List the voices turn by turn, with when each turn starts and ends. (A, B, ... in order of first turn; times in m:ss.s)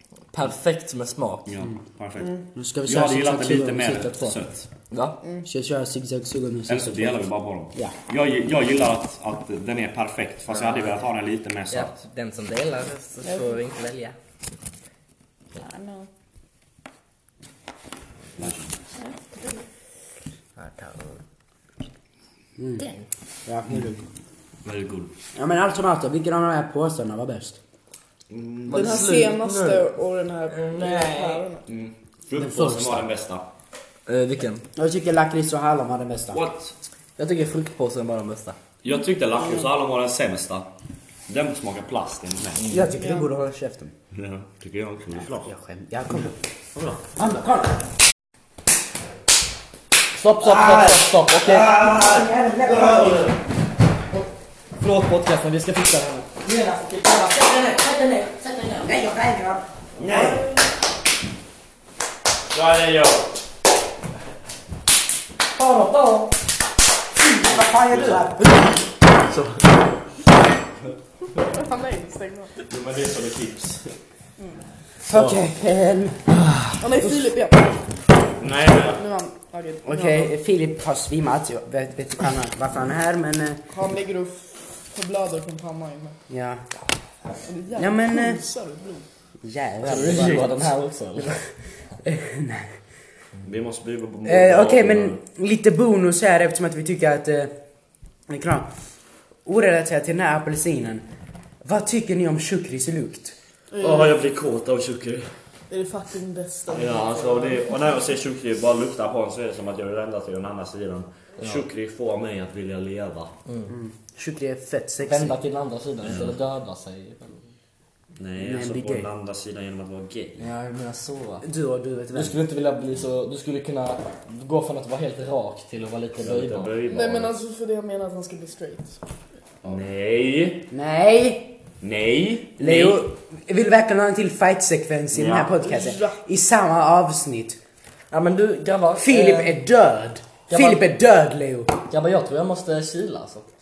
0:00.3-0:01.5 A
0:01.5-0:02.3 B
0:02.6-0:04.2 C
0:02.8-0:04.7 B
0:04.1-0:04.4 A
0:04.9-0:05.2 A
0:05.4-0:08.0 C
0:06.7-0:12.0 B
0:10.5-0:10.9 A
0:11.7-0:14.2 A
0:13.2-0:13.5 D
0:15.6-0:16.1 D
0:19.0-0:19.6 D
0:20.6-0:21.2 A
0:22.6-0:22.9 C
0:23.5-0:24.0 C
0:24.6-0:25.1 B
0:25.4-0:27.6 C
0:28.3-0:29.0 B
0:28.7-0:29.9 A
0:28.7-0:31.7 D
0:30.5-0:31.4 A
0:31.7-0:33.5 B
0:32.4-0:33.1 C
0:34.1-0:34.6 A
0:34.8-0:36.4 C
0:36.3-0:36.7 B
0:37.2-0:38.6 A
0:38.8-0:40.7 B
0:41.3-0:42.6 B
0:42.7-0:43.9 C
0:43.0-0:43.3 D
0:44.1-0:45.4 B
0:45.2-0:46.4 C
0:46.8-0:47.0 B
0:47.1-0:47.8 C
0:50.1-0:51.8 A
0:50.4-0:53.3 C
0:51.7-0:52.0 B
0:52.7-0:53.2 B
0:54.8-0:58.9 A
0:58.8-0:59.7 C
1:00.0-1:00.4 B
1:00.1-1:00.4 D
1:02.5-1:03.3 B
1:05.6-1:06.4 A
1:07.2-1:08.7 C
1:07.7-1:08.3 B
1:09.2-1:09.7 B
1:11.4-1:12.6 D
1:12.7-1:14.0 B
1:15.0-1:16.4 C
1:16.8-1:17.8 D
1:17.0-1:17.3 C
1:18.4-1:19.0 B
1:18.8-1:20.3 D
1:19.8-1:23.6 C
1:23.7-1:26.2 D
1:26.3-1:26.6 C
1:27.4-1:29.1 D
1:27.8-1:28.4 C
1:29.4-1:30.7 C
1:29.8-1:31.5 A
1:32.0-1:32.8 C
1:33.4-1:35.2 B
1:34.2-1:37.5 C
1:38.3-1:38.7 C
1:39.4-1:41.0 C
1:41.6-1:43.4 C
1:43.7-1:44.2 D
1:43.8-1:45.3 B
1:45.7-1:47.8 D
1:46.7-1:53.3 B
1:53.5-1:53.7 A
1:53.7-1:55.4 C
1:55.0-1:57.5 A
1:56.0-1:56.4 B
1:58.2-2:00.4 B
1:58.4-1:59.1 C
2:00.4-2:01.5 A
2:01.4-2:02.4 C
2:02.2-2:06.8 A
2:06.2-2:07.3 B
2:06.9-2:09.0 D
2:09.6-2:10.7 B
2:10.7-2:11.6 C
2:11.8-2:13.0 B
2:12.6-2:17.6 C
2:15.1-2:15.5 B
2:15.6-2:16.2 D
2:18.1-2:19.6 A
2:19.0-2:21.7 C
2:20.5-2:20.9 A
2:21.9-2:23.5 A